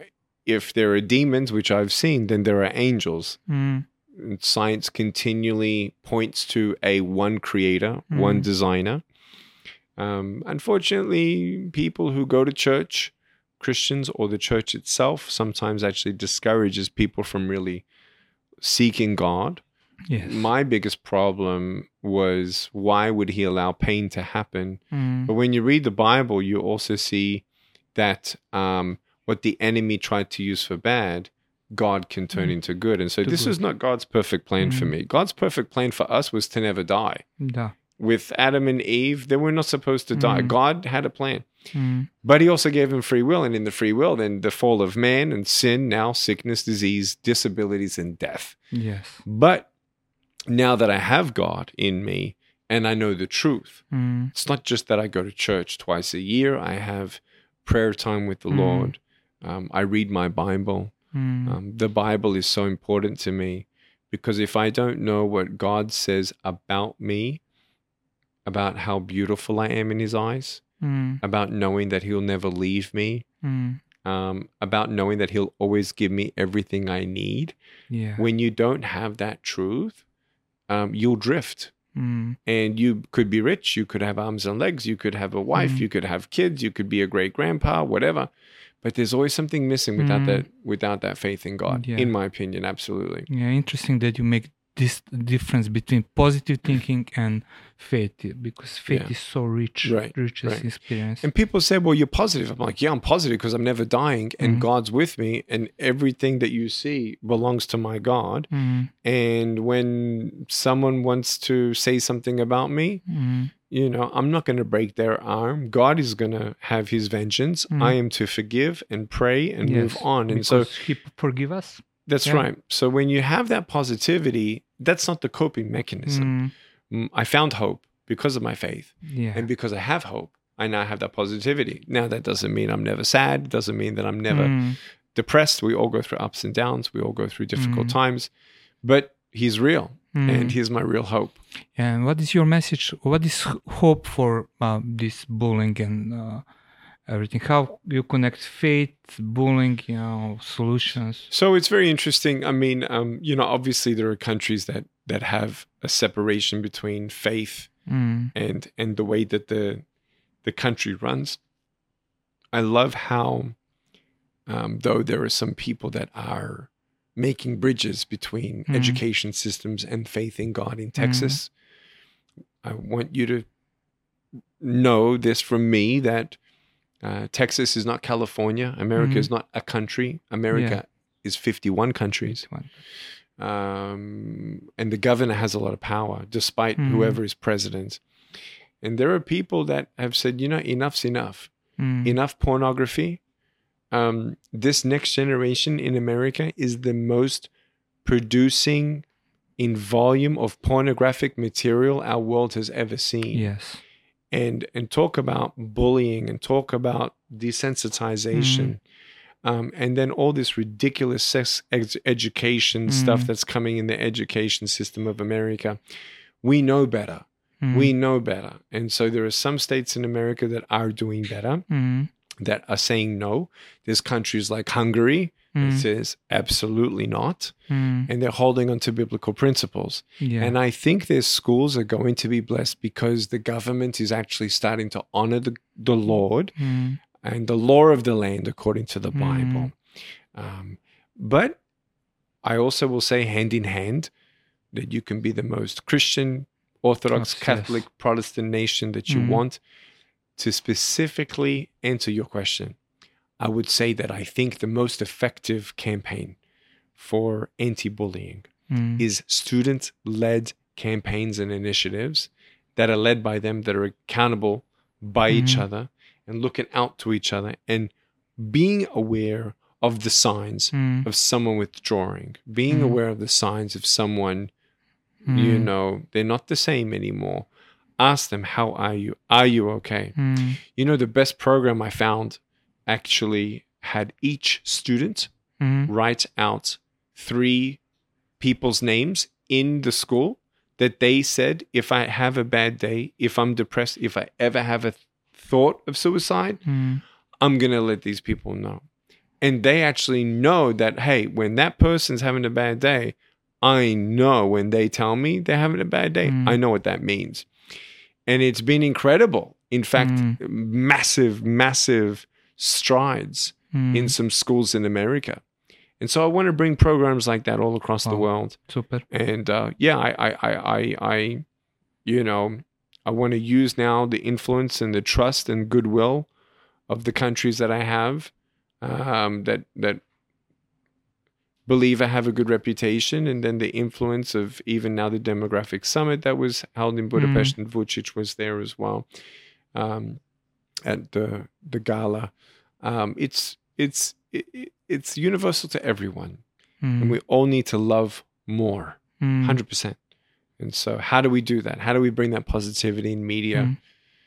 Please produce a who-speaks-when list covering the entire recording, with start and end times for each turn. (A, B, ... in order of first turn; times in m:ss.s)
0:00.5-0:03.4 A
0:03.5-0:03.9 B
0:04.1-0:09.0 A
0:08.1-0:08.5 B
0:10.0-0:17.9 A
0:18.6-0:19.6 A
0:20.1-0:20.5 B
0:20.2-0:37.2 A
0:24.9-0:25.3 B
0:33.2-0:33.6 B
0:34.6-0:34.9 B
0:37.4-0:37.7 B
0:38.0-0:41.5 A
0:40.1-0:40.6 B
0:41.7-0:42.1 B
0:42.2-0:48.6 A
0:48.7-0:49.2 B
0:49.2-0:49.7 A
0:50.5-1:01.0 A
0:53.9-0:54.3 B
0:58.5-0:58.9 B
1:01.1-1:01.6 B
1:01.5-1:07.4 A
1:08.5-1:10.6 A
1:10.8-1:11.2 B
1:11.2-1:13.3 A
1:13.4-1:13.8 B
1:14.0-1:17.6 A
1:17.9-1:18.2 B
1:18.2-1:20.0 A
1:20.7-1:21.7 A
1:22.0-1:22.4 B
1:22.5-1:28.3 A
1:25.5-1:25.8 B
1:28.8-1:33.3 A
1:30.0-1:30.5 B
1:31.7-1:32.1 B
1:33.3-1:41.3 B
1:38.9-1:39.2 A
1:39.8-1:48.5 A
1:44.4-1:44.7 B
1:48.5-1:48.9 B
1:49.0-1:53.0 A
1:53.1-1:53.5 B
1:53.7-2:00.7 A
1:57.7-1:58.0 B
1:59.6-2:02.5 B
2:02.1-2:06.4 A
2:06.1-2:06.5 B
2:06.9-2:14.6 A
2:09.0-2:09.5 B
2:14.3-2:14.8 B
2:15.1-2:18.3 A
2:17.6-2:18.0 B
2:18.8-2:21.4 A
2:20.1-2:20.6 B
2:21.8-2:26.4 B
2:27.1-2:31.3 B
2:31.3-2:37.7 A
2:37.9-2:38.3 B
2:38.4-2:39.8 A
2:40.4-2:41.4 A
2:42.5-2:43.6 A
2:44.5-2:51.5 A
2:48.7-2:49.0 B
2:51.0-2:51.4 B
2:52.6-2:53.5 A
2:54.6-2:56.4 A
2:57.0-3:02.4 A
2:59.0-2:59.3 B
3:00.5-3:00.8 B
3:02.3-3:02.7 B
3:03.4-3:08.0 A
3:06.8-3:07.2 B
3:08.8-3:11.5 A
3:11.8-3:12.2 B
3:12.0-3:13.2 A
3:13.9-3:17.5 A
3:18.0-3:19.0 A
3:19.6-3:23.5 A
3:23.3-3:23.8 B
3:24.3-3:28.8 A
3:28.3-3:28.7 B
3:29.4-3:35.8 A
3:32.9-3:33.3 B
3:36.4-3:41.6 A
3:37.6-3:37.9 B
3:41.7-3:42.1 B
3:42.4-3:47.5 A
3:45.6-3:45.8 B
3:47.7-3:48.1 B
3:48.1-3:56.6 A
3:50.2-3:50.6 B
3:56.6-3:57.0 B
3:57.2-3:59.8 A
3:59.1-3:59.7 B
4:00.4-4:01.6 A
4:02.4-4:04.1 A
4:04.7-4:09.6 A
4:07.1-4:07.8 B
4:09.1-4:09.4 B
4:10.4-4:12.8 A
4:13.4-4:16.4 A
4:17.0-4:34.5 A
4:18.7-4:19.0 B
4:25.3-4:25.7 B
4:30.7-4:31.1 B
4:32.7-4:33.0 B
4:35.2-4:35.7 B
4:35.3-4:37.5 A
4:38.0-4:40.2 A
4:40.2-4:40.6 B
4:40.7-4:45.3 A
4:45.6-4:45.9 B
4:45.9-4:47.8 A
4:48.4-4:56.6 A
4:56.6-4:57.0 B
4:57.4-4:58.8 A
4:59.4-5:07.5 A
5:06.2-5:06.6 B
5:08.3-5:15.4 A
5:10.0-5:10.4 B
5:13.7-5:14.2 B
5:16.0-5:21.4 A
5:18.0-5:19.0 B
5:22.0-5:26.3 A
5:26.9-5:30.0 A
5:31.7-5:39.1 A
5:37.2-5:37.6 B
5:39.8-5:40.2 A
5:40.8-5:46.4 A
5:46.8-5:47.2 B
5:47.0-5:50.0 A
5:49.2-5:49.6 B
5:50.6-5:53.7 A